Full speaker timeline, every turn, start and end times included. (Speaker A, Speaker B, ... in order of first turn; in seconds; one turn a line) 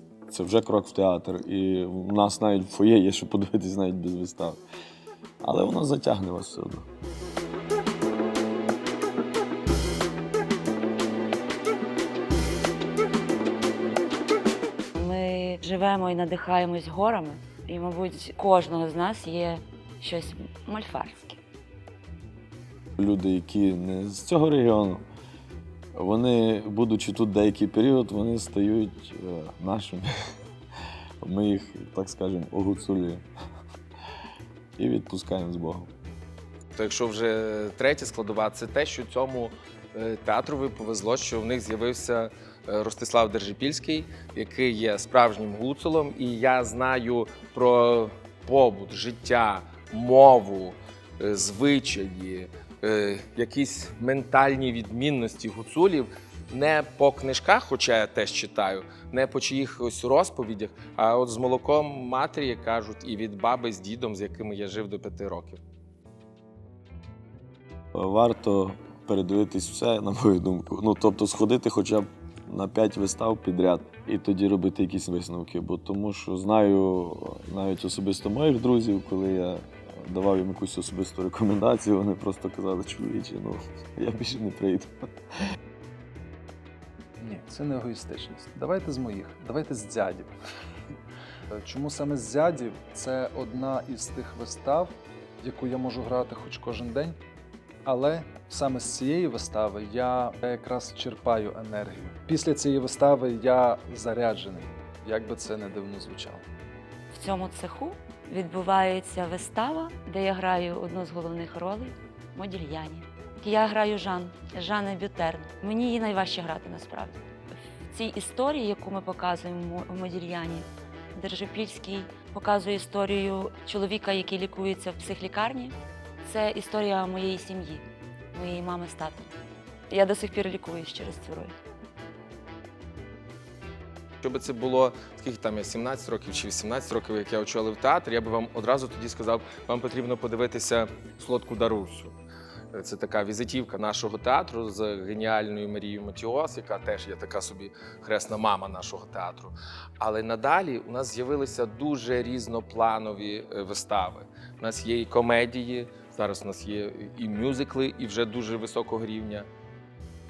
Speaker A: 0.3-4.6
Speaker A: 5.4-6.9
Speaker B: 14.9-21.4
Speaker A: 23.0-25.1
Speaker A: 25.9-30.1
Speaker A: 31.2-33.2
Speaker A: 34.8-35.9
Speaker C: 36.7-65.6
Speaker A: 67.9-85.1
Speaker D: 87.2-90.3
Speaker D: 91.5-97.2
Speaker D: 97.8-106.5
Speaker B: 107.1-117.2
Speaker B: 117.9-129.3
Speaker B: 129.9-131.6
Speaker C: 134.2-142.2
Speaker C: 142.7-159.5